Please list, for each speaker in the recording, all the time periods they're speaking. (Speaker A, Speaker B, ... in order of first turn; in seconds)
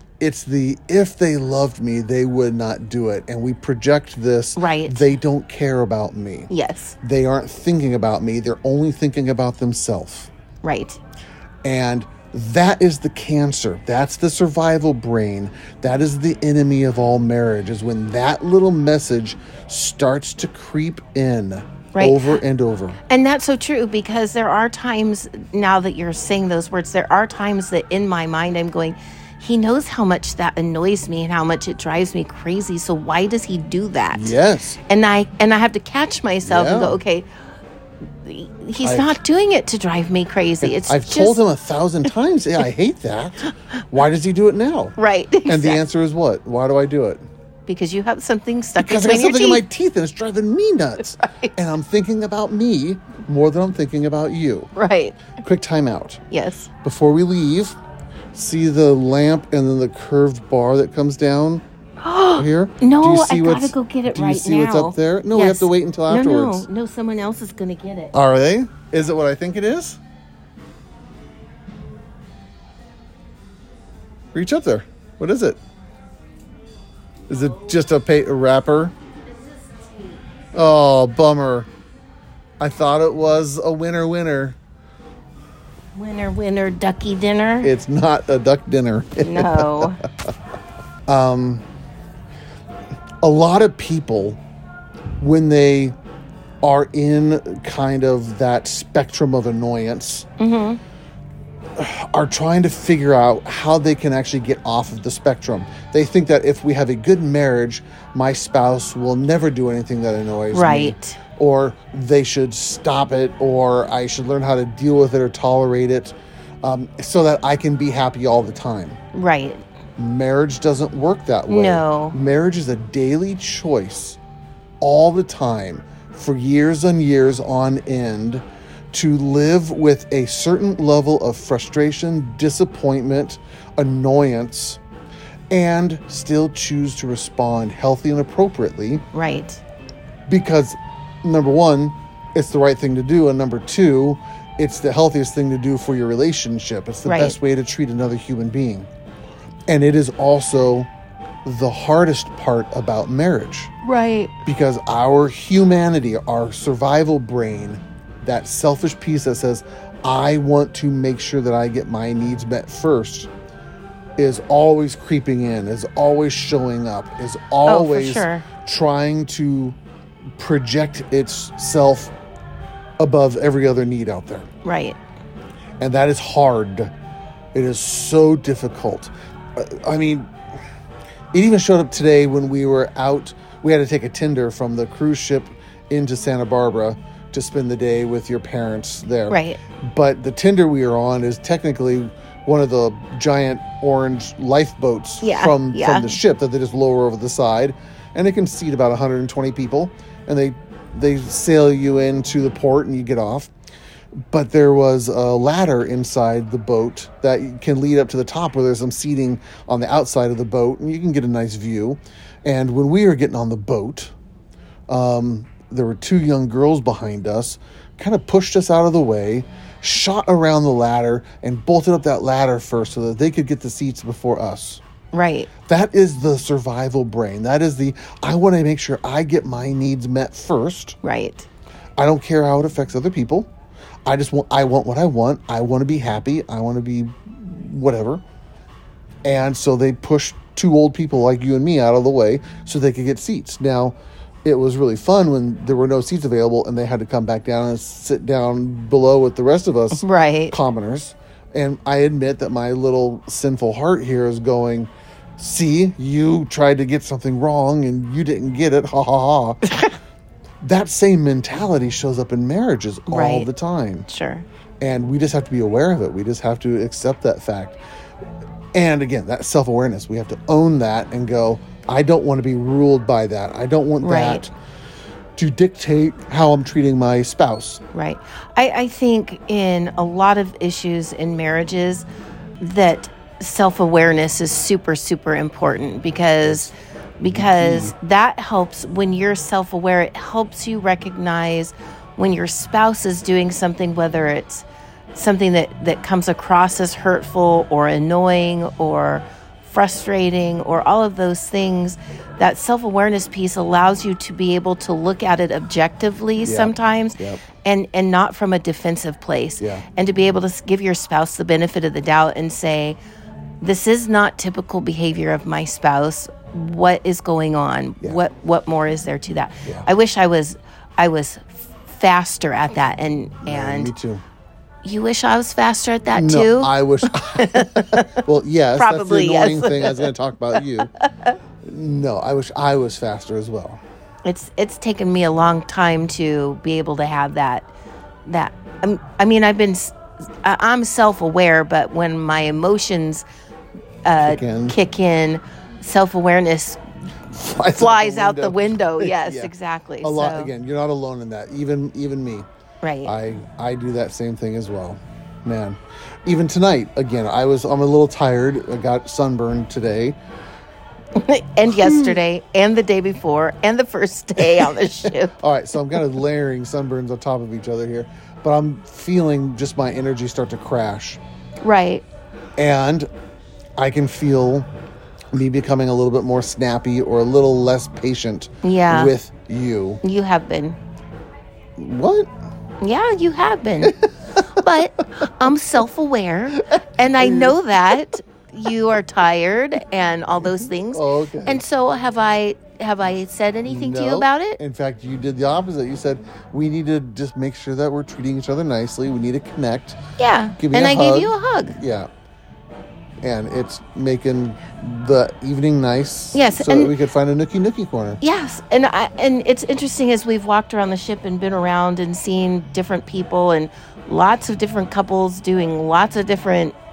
Speaker A: 0.2-10.3, 11.7-23.0, 34.1-34.8, 36.5-37.0, 38.8-39.2, 40.6-45.0, 45.5-47.2, 48.8-54.7, 55.4-56.2, 56.8-57.8, 58.3-61.6, 62.4-66.7, 68.1-70.0, 74.3-75.6, 77.3-78.9, 80.5-81.7, 82.6-84.6, 87.6-90.0, 91.1-91.6, 93.2-94.4, 95.2-96.0, 96.6-100.3, 101.8-119.0, 120.0-124.2, 124.8-134.8, 135.5-139.1, 140.3-148.9, 149.7-150.9, 151.4-153.7, 154.4-163.3, 164.2-169.8, 170.4-172.1, 173.0-174.5, 175.8-176.9, 177.5-180.3, 181.3-203.5, 204.3-214.1, 214.9-224.8, 225.7-231.0, 232.0-233.5, 234.1-238.2, 239.2-259.9, 260.6-264.1, 264.8-267.8, 268.8-274.5, 275.4-277.8, 286.4-286.7, 287.3-287.9, 306.4-307.4, 309.6-309.9, 323.4-324.2, 326.1-330.9, 331.6-333.8, 344.2-344.8, 347.3-352.5, 353.1-360.2, 361.7-362.2, 364.4-371.2, 372.6-373.1, 373.8-374.7, 375.3-380.0, 381.8-382.3, 383.8-384.4, 386.7-388.1, 390.6-391.6, 393.7-400.0, 400.6-402.1, 403.2-408.2
Speaker B: 4.6-5.0, 6.5-7.0, 10.6-11.0, 21.9-22.4, 23.1-34.4, 34.9-37.3, 38.2-41.4, 45.0-45.8, 47.7-49.6, 51.2-51.5, 54.8-55.2, 56.3-56.7, 62.0-68.1, 86.0-87.7, 89.2-90.0, 100.4-100.8, 110.5-111.2, 119.1-119.6, 121.5-122.2, 139.1-139.6, 147.1-147.4, 153.8-154.4, 167.7-168.5, 174.6-175.0, 189.3-189.6, 195.2-196.2, 225.1-225.5, 231.0-231.5, 250.0-250.6, 263.1-263.5, 264.1-264.5, 274.0-274.5, 277.9-282.1, 282.6-313.0, 313.6-323.9, 324.8-328.1, 328.8-330.1, 330.8-331.3, 334.2-337.7, 338.3-343.3, 344.1-346.8, 347.7-350.5, 352.8-353.1, 361.2-365.4, 371.6-372.1, 378.6-379.1, 380.0-380.8, 382.8-383.9, 384.6-394.6, 400.2-401.8, 406.3-406.9, 408.2-416.8